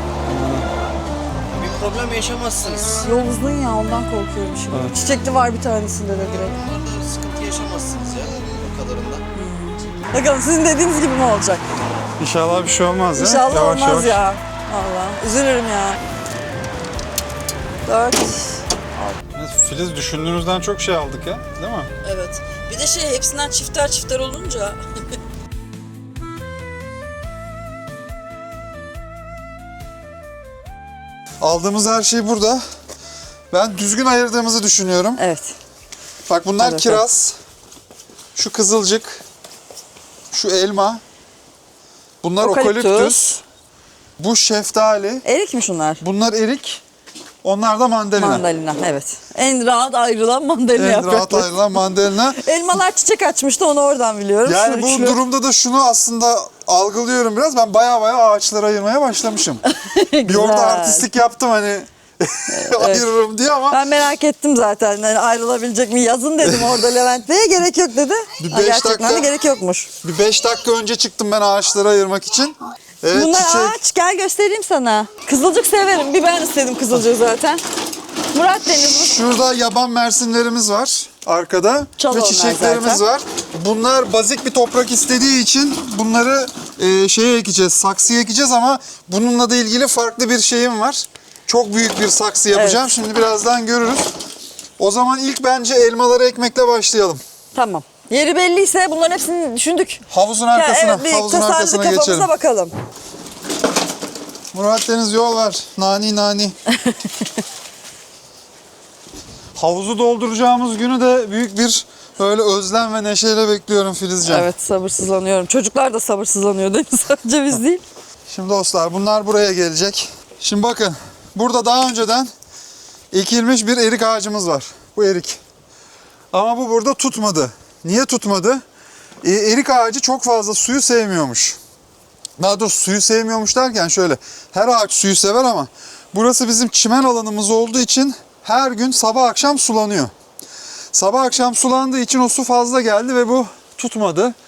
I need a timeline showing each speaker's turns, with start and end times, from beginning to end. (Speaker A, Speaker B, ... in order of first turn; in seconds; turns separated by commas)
Speaker A: 0.2-0.7, Speaker B: 1.5-3.0, Speaker C: 3.0-6.5, Speaker B: 6.2-9.2, Speaker C: 9.3-11.6, Speaker A: 12.2-14.2, Speaker C: 13.1-16.0, Speaker C: 17.9-19.1, Speaker A: 19.3-21.9, Speaker C: 22.0-24.8, Speaker A: 31.4-32.6, Speaker A: 33.5-35.2, Speaker C: 35.2-35.5, Speaker A: 36.3-37.4, Speaker C: 36.6-37.0, Speaker A: 38.3-39.2, Speaker A: 40.3-41.0, Speaker A: 42.2-43.4, Speaker C: 42.4-43.3, Speaker A: 44.2-45.2, Speaker C: 45.2-46.0, Speaker A: 46.0-46.8, Speaker A: 47.4-48.4, Speaker C: 48.2-55.2, Speaker A: 50.8-52.4, Speaker A: 54.4-59.6, Speaker C: 59.6-61.1, Speaker A: 60.2-63.8, Speaker C: 62.5-63.1, Speaker C: 63.7-69.9, Speaker A: 66.4-66.8, Speaker A: 68.4-69.3, Speaker A: 70.0-73.8, Speaker C: 73.1-77.6, Speaker C: 78.3-79.2, Speaker A: 79.0-94.1, Speaker C: 82.0-83.0, Speaker C: 92.5-92.8, Speaker A: 94.8-97.2, Speaker C: 97.5-102.7, Speaker A: 100.1-102.3, Speaker A: 104.5-106.5, Speaker A: 109.6-114.5, Speaker C: 114.2-117.8, Speaker A: 118.3-122.3, Speaker A: 123.1-125.4, Speaker A: 126.3-128.6, Speaker A: 129.2-131.6, Speaker A: 132.4-140.1, Speaker A: 140.9-144.3